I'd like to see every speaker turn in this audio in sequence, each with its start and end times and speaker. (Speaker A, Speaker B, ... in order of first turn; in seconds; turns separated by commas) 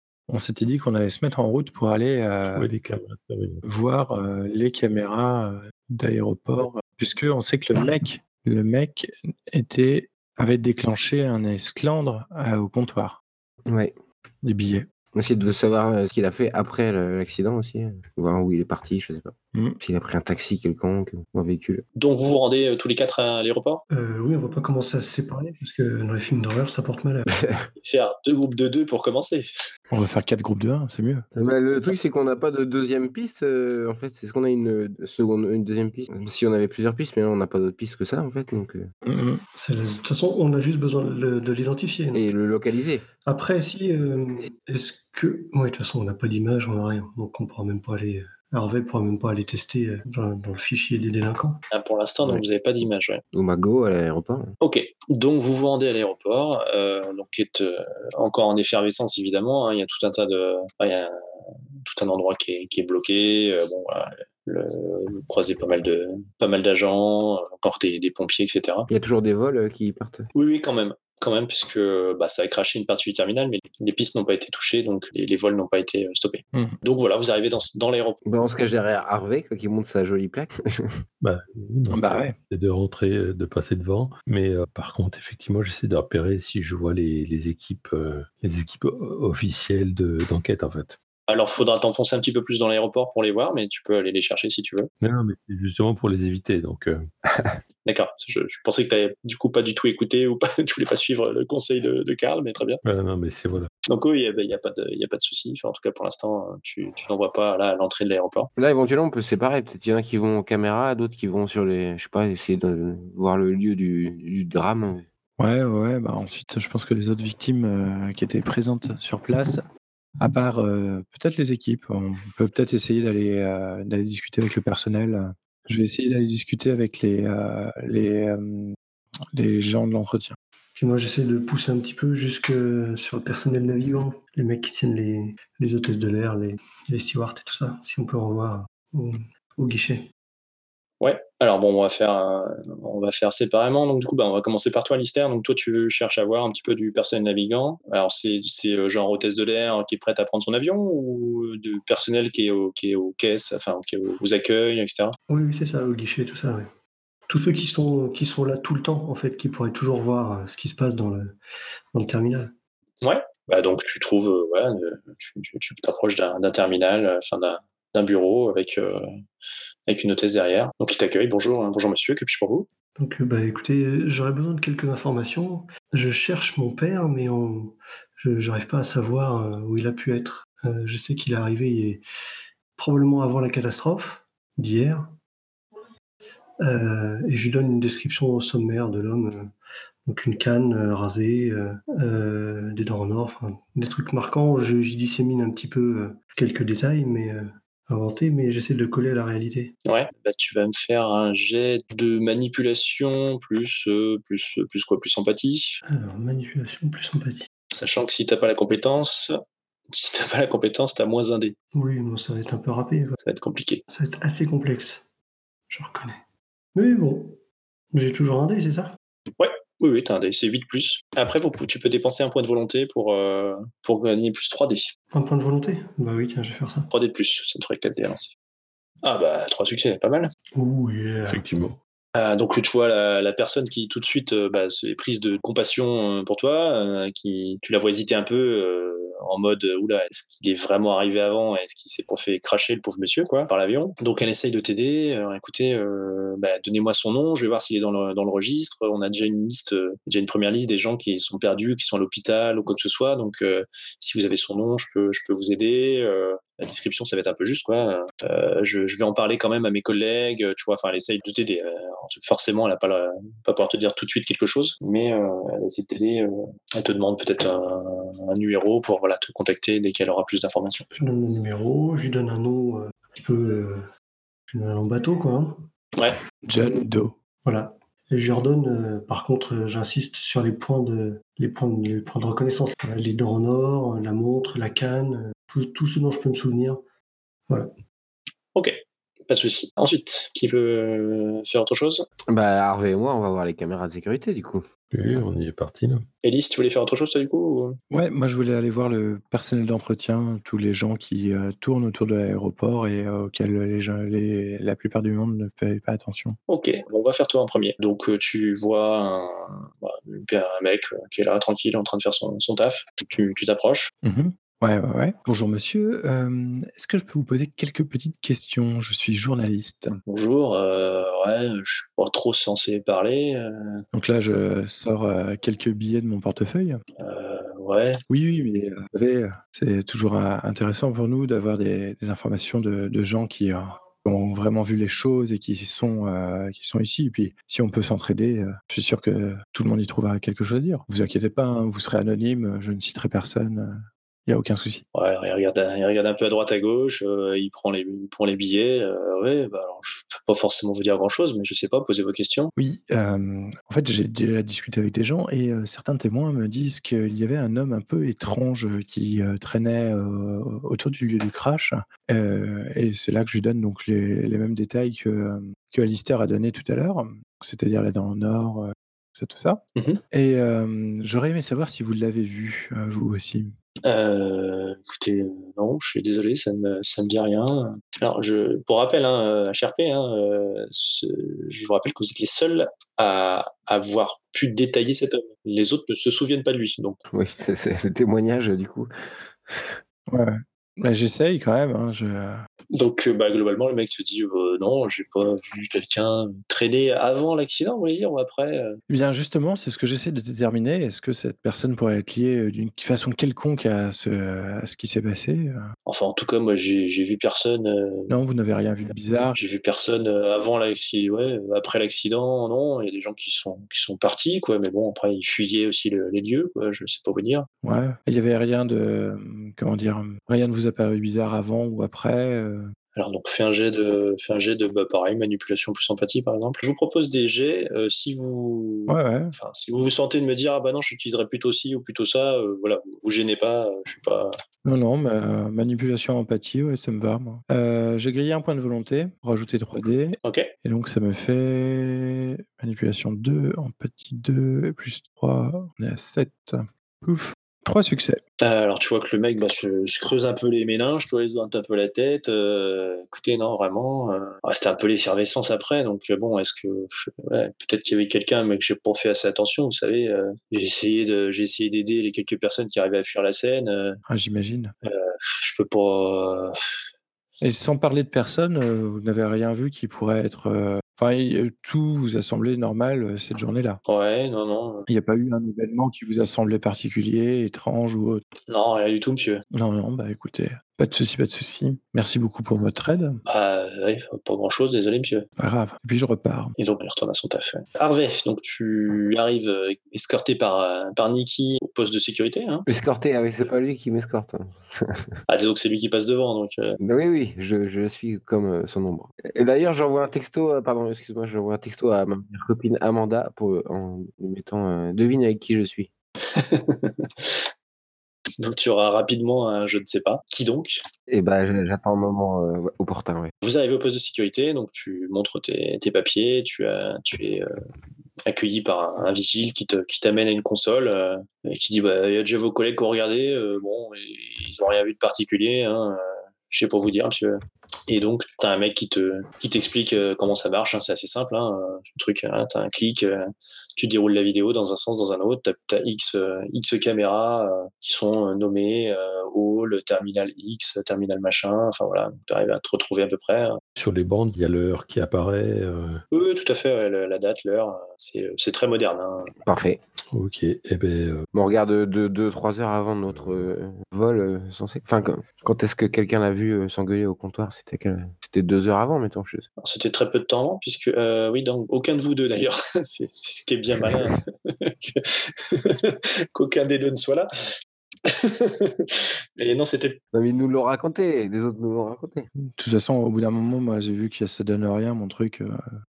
Speaker A: 0.3-2.7, Speaker B: 2.5-3.6, Speaker A: 3.6-13.2, Speaker C: 13.7-13.9, Speaker A: 14.4-14.9, Speaker C: 15.1-21.8, Speaker A: 19.5-19.8, Speaker D: 22.0-23.8, Speaker E: 23.9-27.3, Speaker C: 27.3-27.7, Speaker D: 27.8-29.5, Speaker A: 29.9-31.2, Speaker C: 31.4-38.9, Speaker A: 39.0-39.4, Speaker E: 39.5-42.3, Speaker C: 42.1-43.0, Speaker E: 43.2-51.6, Speaker D: 51.7-53.2, Speaker C: 53.3-54.5, Speaker D: 54.6-61.1, Speaker D: 61.8-68.9, Speaker C: 68.9-70.3, Speaker D: 70.3-78.2, Speaker C: 78.3-81.0, Speaker B: 81.2-91.0, Speaker A: 81.9-82.4, Speaker D: 91.3-94.9, Speaker B: 95.0-97.1, Speaker D: 97.9-102.8, Speaker B: 102.8-103.7, Speaker D: 103.9-108.5, Speaker C: 108.6-115.1, Speaker A: 115.4-119.7, Speaker A: 120.2-128.8, Speaker A: 129.3-130.4, Speaker E: 130.8-140.1, Speaker D: 141.0-155.2, Speaker E: 155.3-156.7, Speaker E: 157.3-161.3, Speaker E: 161.9-162.5, Speaker D: 163.0-169.1, Speaker D: 169.9-172.7, Speaker E: 173.0-182.0, Speaker E: 182.8-185.2, Speaker E: 186.6-189.5, Speaker E: 190.1-199.7, Speaker D: 199.9-205.8, Speaker E: 205.9-207.5, Speaker D: 207.7-209.3, Speaker D: 209.9-211.6, Speaker E: 211.7-213.2, Speaker D: 213.2-213.8, Speaker E: 213.9-215.0, Speaker E: 215.7-216.2, Speaker E: 216.8-217.4, Speaker E: 217.9-218.9, Speaker D: 219.4-224.9, Speaker E: 225.1-226.9, Speaker D: 226.9-228.3, Speaker D: 229.0-230.3, Speaker E: 230.6-231.4, Speaker B: 231.2-231.8, Speaker D: 232.2-270.9, Speaker E: 270.9-273.8, Speaker E: 274.5-275.7, Speaker A: 276.5-277.2, Speaker E: 277.4-286.8, Speaker D: 288.6-292.1, Speaker C: 292.3-294.7, Speaker B: 294.9-296.1, Speaker D: 296.2-297.8, Speaker A: 297.9-306.4, Speaker D: 306.5-313.9, Speaker A: 314.0-320.0, Speaker D: 320.1-323.8, Speaker A: 323.9-326.8, Speaker D: 327.0-328.0, Speaker A: 328.1-344.8, Speaker D: 344.9-352.5, Speaker A: 352.6-369.6, Speaker D: 369.8-370.0, Speaker A: 370.1-373.5, Speaker D: 373.8-387.0, Speaker C: 387.1-389.8, Speaker A: 390.1-392.4, Speaker D: 392.7-398.8, Speaker A: 398.9-405.7, Speaker D: 405.9-408.1, Speaker A: 408.1-409.4, Speaker D: 409.4-417.5, Speaker A: 417.6-422.7, Speaker D: 422.9-434.3, Speaker A: 428.9-429.4, Speaker A: 434.6-448.2, Speaker D: 440.2-440.5, Speaker D: 448.4-464.0, Speaker A: 464.1-464.7, Speaker D: 464.9-466.6, Speaker A: 467.4-473.8, Speaker D: 473.9-474.9, Speaker A: 474.9-478.2, Speaker D: 478.5-479.4, Speaker A: 479.5-483.2, Speaker D: 483.3-485.3, Speaker A: 485.4-486.5, Speaker D: 486.6-492.6, Speaker C: 492.7-495.2, Speaker D: 495.3-496.8, Speaker C: 496.8-505.9, Speaker D: 506.3-507.4, Speaker D: 508.4-510.8, Speaker C: 511.1-513.3, Speaker D: 513.4-517.5, Speaker D: 518.3-543.6, Speaker B: 543.8-546.0, Speaker D: 546.1-549.3, Speaker C: 549.5-549.8, Speaker B: 550.1-551.3, Speaker C: 551.3-559.5, Speaker D: 559.6-567.5, Speaker D: 568.1-570.0, Speaker C: 570.1-572.3, Speaker A: 572.5-575.6